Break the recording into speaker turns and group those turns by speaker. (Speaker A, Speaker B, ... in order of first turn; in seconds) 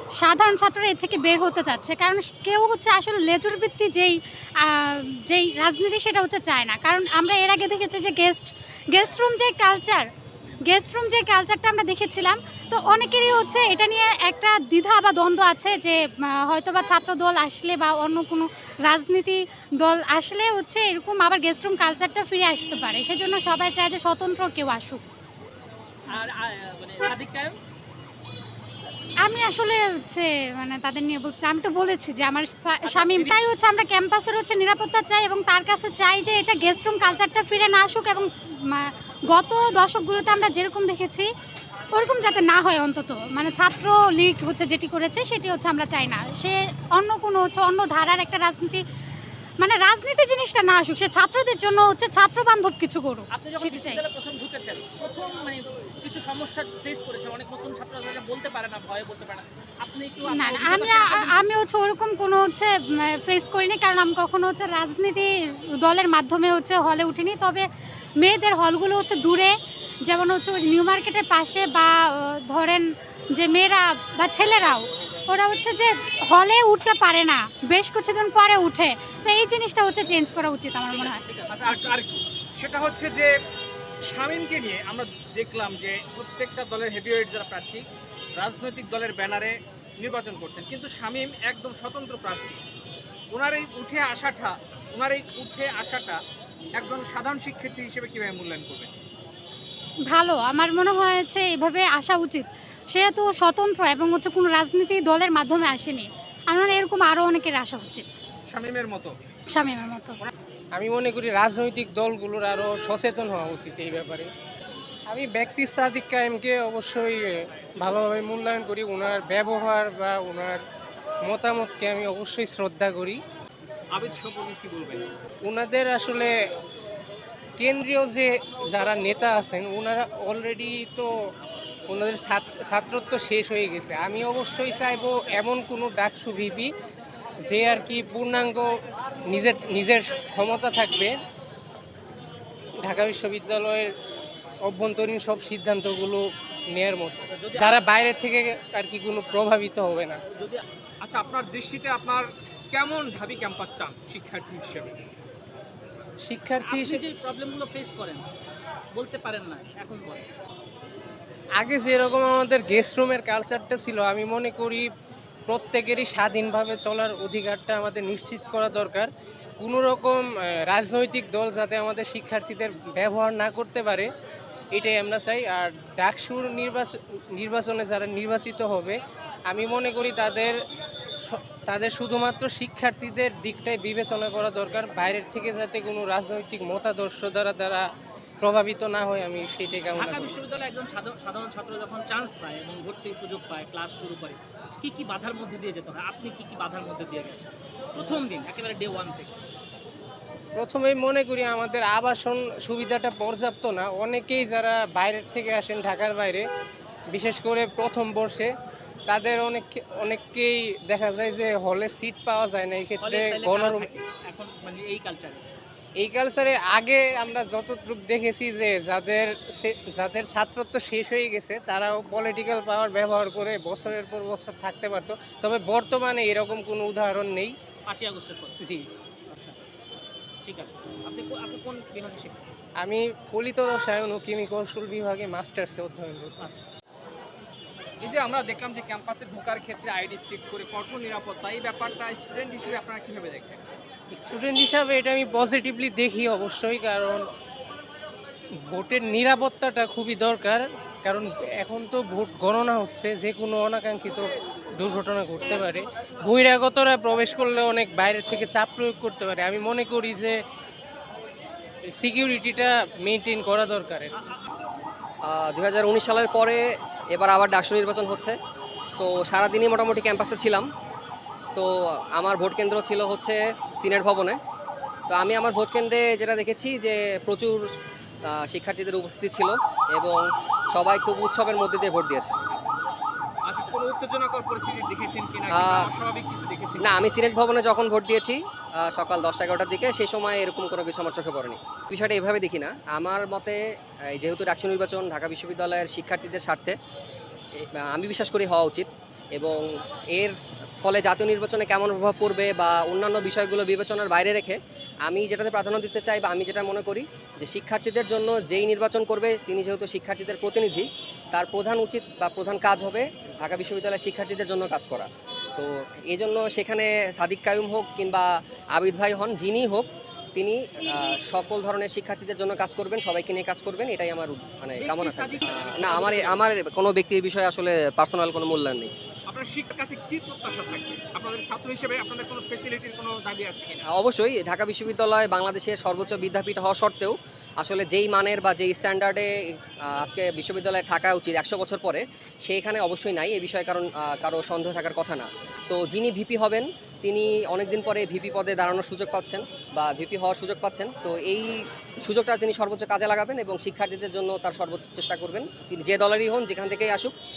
Speaker A: 0.2-10.1, 10.6-25.0, 29.2-41.3, 41.9-48.8, 49.6-54.0, 60.3-67.7, 68.2-81.2, 100.1-108.2, 109.5-110.2
Speaker B: 26.1-27.6, 32.8-33.4, 53.3-61.4, 80.9-82.0, 147.3-147.8, 150.3-150.6, 156.6-158.3, 158.9-160.3, 189.9-199.3, 213.0-215.5, 227.9-228.6, 229.3-229.6, 230.4-232.5, 264.1-264.4, 324.8-326.4
Speaker C: 81.5-83.4, 84.0-92.6, 93.3-96.2, 96.8-98.9, 108.5-109.2, 123.9-125.1, 151.0-155.0, 238.0-243.6, 283.4-287.0, 329.3-333.9
Speaker D: 110.8-114.3, 115.1-120.6, 121.2-123.2, 125.4-126.3, 127.6-131.1, 131.9-136.7, 137.4-141.2, 142.8-143.9, 144.7-150.2, 156.2-157.0, 161.6-164.9, 165.5-169.1, 169.6-174.1, 174.7-180.6, 181.3-187.9, 188.4-190.4, 200.6-206.5, 207.1-208.5, 209.1-213.9, 216.0-227.6, 228.6-228.9, 232.8-236.5, 244.1-247.2, 248.7-260.4, 261.9-264.1
Speaker E: 265.2-268.4, 269.0-270.7, 271.6-274.4, 275.1-277.6, 278.2-282.4, 285.5-285.9, 286.8-296.8, 297.6-328.9, 333.9-339.3, 339.8-357.1